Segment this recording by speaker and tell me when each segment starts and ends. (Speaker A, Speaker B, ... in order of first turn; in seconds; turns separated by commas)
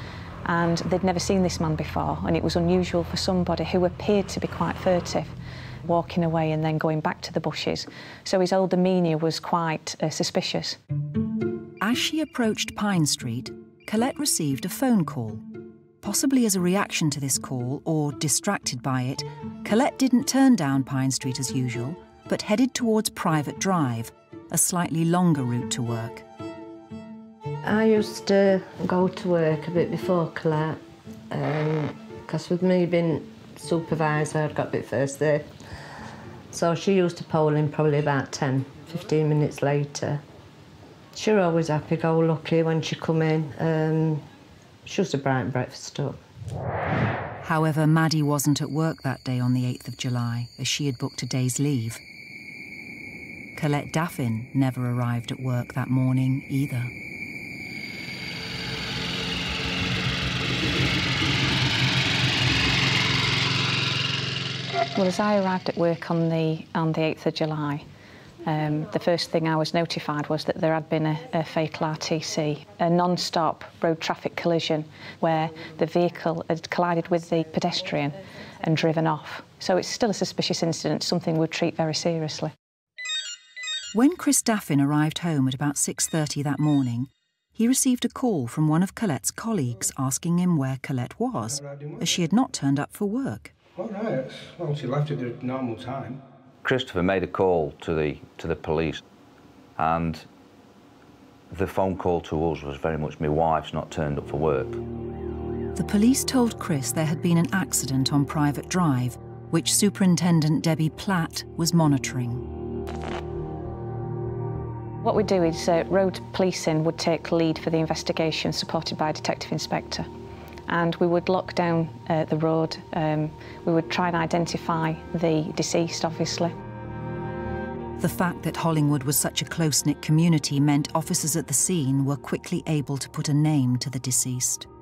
Speaker A: 0.5-10.8, Speaker B: 11.8-15.4, Speaker B: 16.0-26.2, Speaker C: 27.6-30.8, Speaker C: 31.3-35.5, Speaker C: 36.5-40.2, Speaker C: 41.1-44.3, Speaker C: 44.9-46.2, Speaker B: 47.4-52.0, Speaker B: 53.6-56.9, Speaker A: 65.0-67.8, Speaker A: 68.5-82.5, Speaker B: 83.9-93.5, Speaker D: 91.5-92.0, Speaker D: 93.8-96.2, Speaker E: 96.6-99.0, Speaker E: 99.8-100.3, Speaker E: 101.5-104.8, Speaker B: 105.8-112.5, Speaker A: 115.0-120.1, Speaker A: 120.7-126.5, Speaker B: 128.0-134.7